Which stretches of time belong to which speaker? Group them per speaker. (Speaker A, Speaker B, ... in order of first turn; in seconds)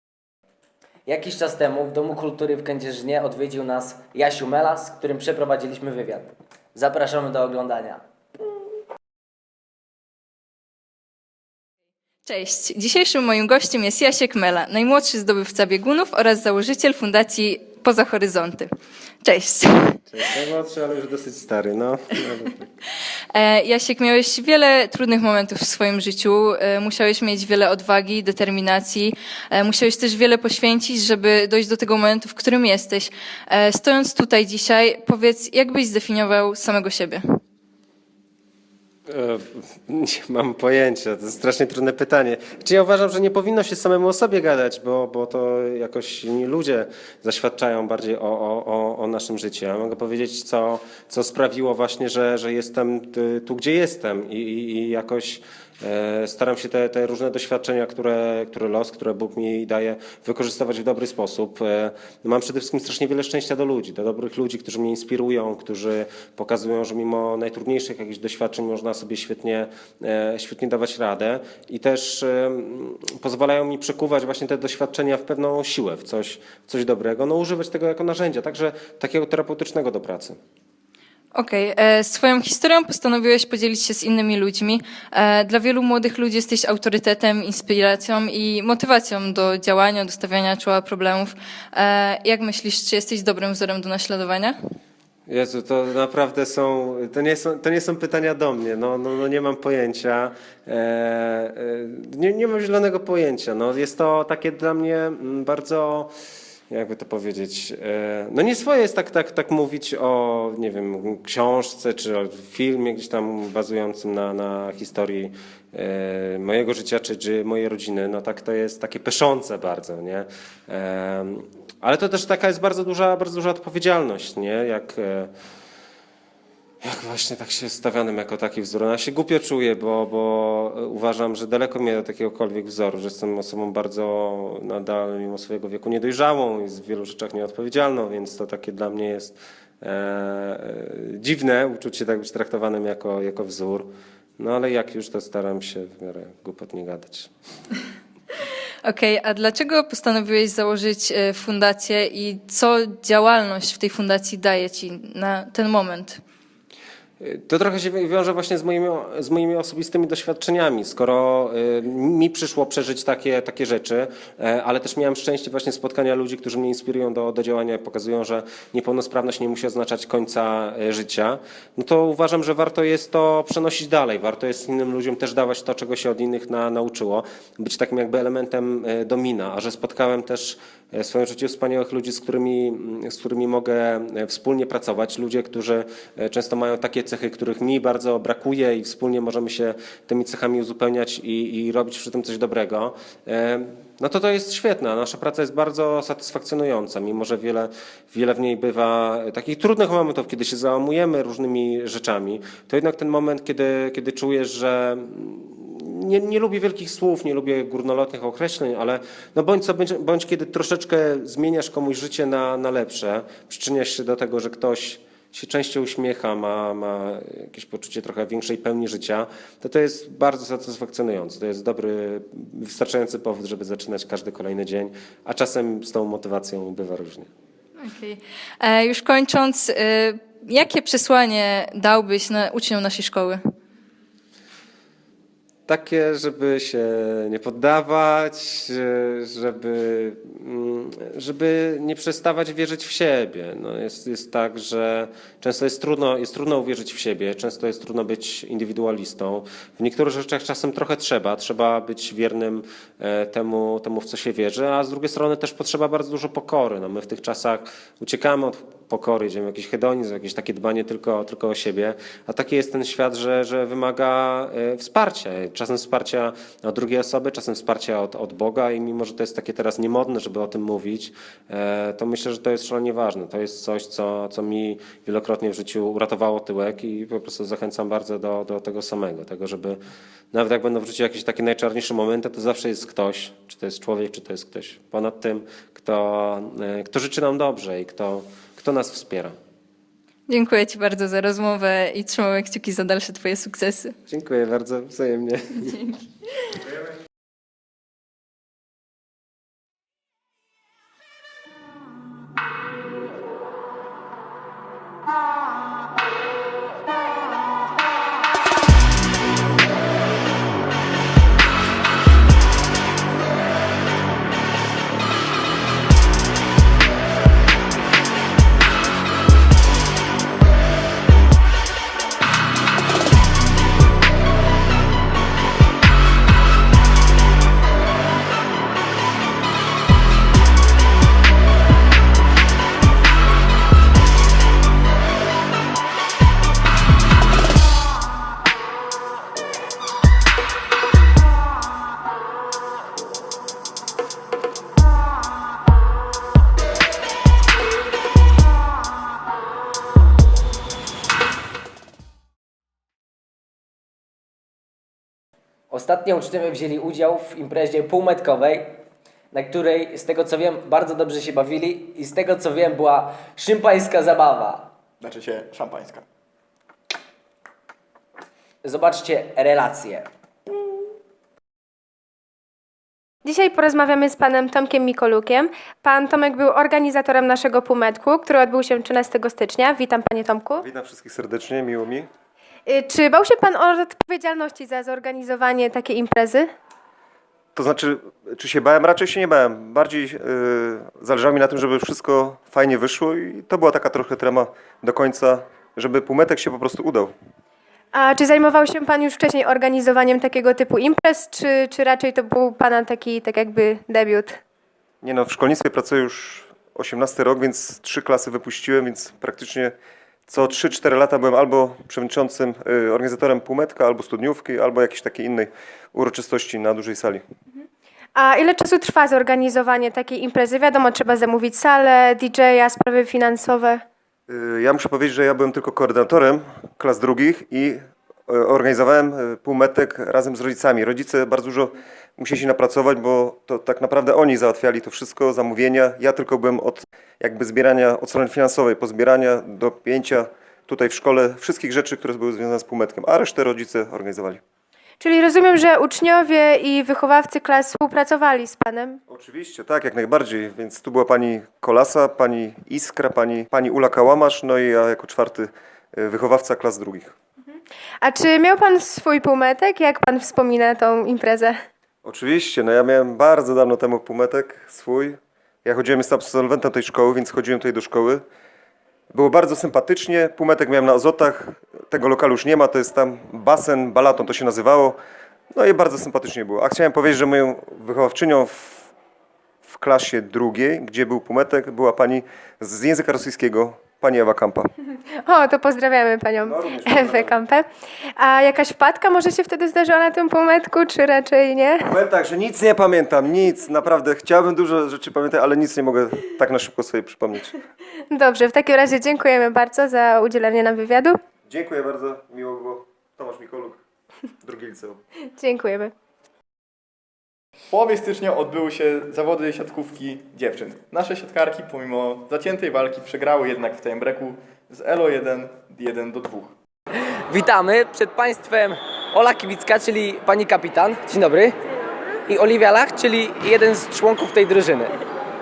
Speaker A: 1.1-8.0, 355.7-364.7, 368.6-370.1, 517.3-521.5, 522.3-524.9
Speaker B: 12.2-18.7, 19.2-20.0, 23.3-37.4, 81.3-94.6, 148.8-156.2, 227.8-233.4, 290.3-293.9
Speaker C: 20.1-22.7, 39.1-80.4, 95.3-106.1, 106.7-125.3, 126.8-147.3, 157.2-227.3, 235.7-279.8, 280.3-289.4, 294.1-295.8
Speaker D: 365.0-366.1, 507.7-516.5
Speaker E: 373.2-380.6, 382.7-386.5, 397.9-404.4, 418.1-423.8, 445.0-449.0, 458.0-461.6, 485.2-491.9, 498.1-501.2, 505.4-505.9
Speaker F: 380.6-382.1, 387.6-397.1, 405.0-409.7, 410.3-417.2, 424.3-444.4, 449.1-457.1, 462.0-468.2, 469.1-475.0, 475.5-478.9, 479.6-484.7, 486.4-487.3, 491.9-497.6, 501.4-503.8, 504.4-505.0